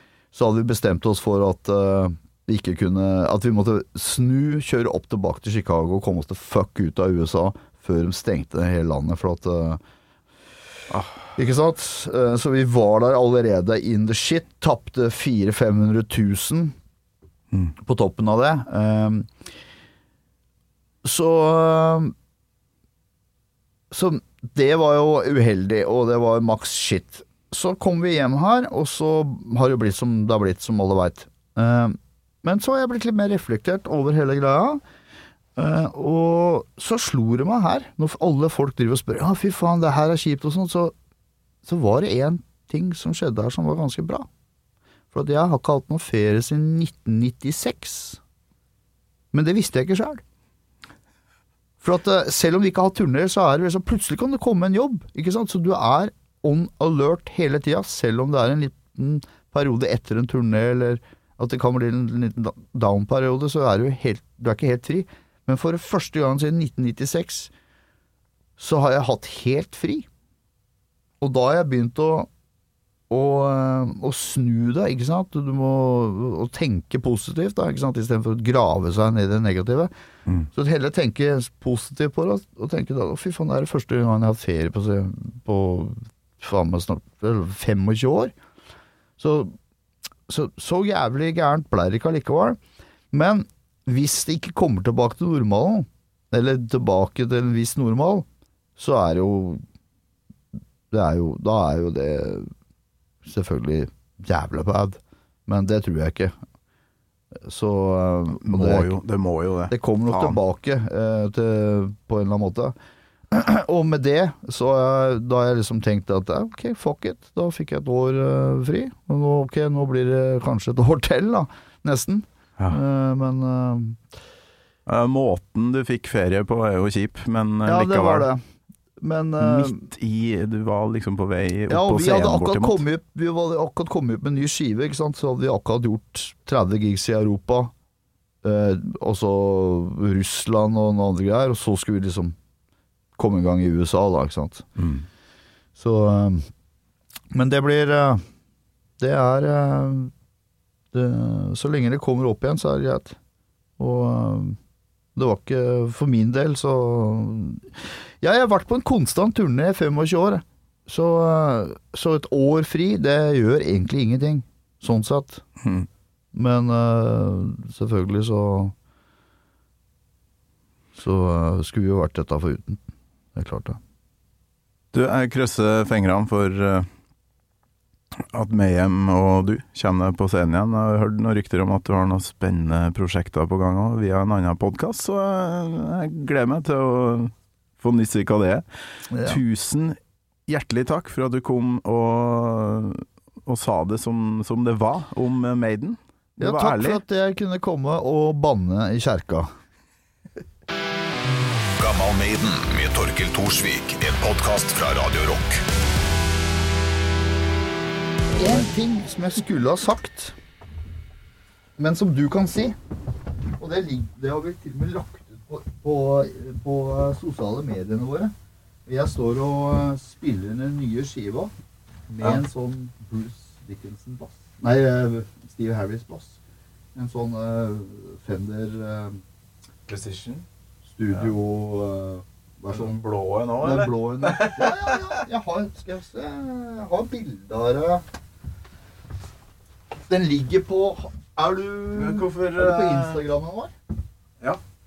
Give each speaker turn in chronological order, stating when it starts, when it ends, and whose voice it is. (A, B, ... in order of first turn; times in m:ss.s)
0:00.3-0:09.8 A
0:10.9-0:11.3 B
0:11.4-0:16.8 A
0:17.8-0:19.3 A
0:21.0-0:22.1 A
0:23.9-0:34.8 A
0:35.6-0:40.9 A
0:41.6-0:44.3 A
0:45.1-0:48.2 A
0:49.3-0:50.2 A
0:51.8-1:07.5 A
1:08.6-1:10.0 A
1:11.2-1:12.3 A
1:13.1-1:19.9 A
1:20.5-1:28.3 A
1:29.2-1:29.5 A
1:30.3-1:32.6 A
1:33.1-1:38.2 A
1:38.8-1:39.6 A
1:40.9-1:42.5 A
1:43.2-1:46.3 A
1:47.4-1:48.9 A
1:48.4-1:50.4 B
1:49.7-1:52.7 A
1:53.3-2:04.0 A
2:04.9-2:08.3 B
2:07.6-2:08.4 A
2:09.0-2:09.9 A
2:09.4-2:12.8 B
2:11.7-2:17.7 A
2:18.4-2:22.3 A
2:23.2-2:24.7 A
2:24.8-2:25.0 B
2:25.8-2:26.5 A
2:27.3-2:28.2 A
2:29.0-2:30.1 A
2:30.9-2:33.2 A
2:33.8-2:34.6 A
2:35.2-2:45.4 A
2:45.6-2:45.9 B
2:46.3-2:48.7 A
2:51.0-2:52.8 A
2:53.3-2:53.8 A
2:54.9-2:56.9 B
2:58.2-3:08.6 B
3:09.1-3:09.4 A
3:09.2-3:17.0 B
3:16.4-3:19.5 A
3:21.8-3:25.6 C
3:28.3-3:30.4 A
3:31.8-3:32.7 A
3:33.6-3:38.3 A
3:38.9-3:41.5 A
3:42.1-3:42.4 B
3:42.2-3:46.4 A
3:46.9-3:49.2 A
3:49.8-3:50.4 B
3:50.9-3:53.0 A
3:52.7-3:55.2 B
3:53.6-3:58.0 A
4:00.1-4:03.7 A
4:01.9-4:03.2 B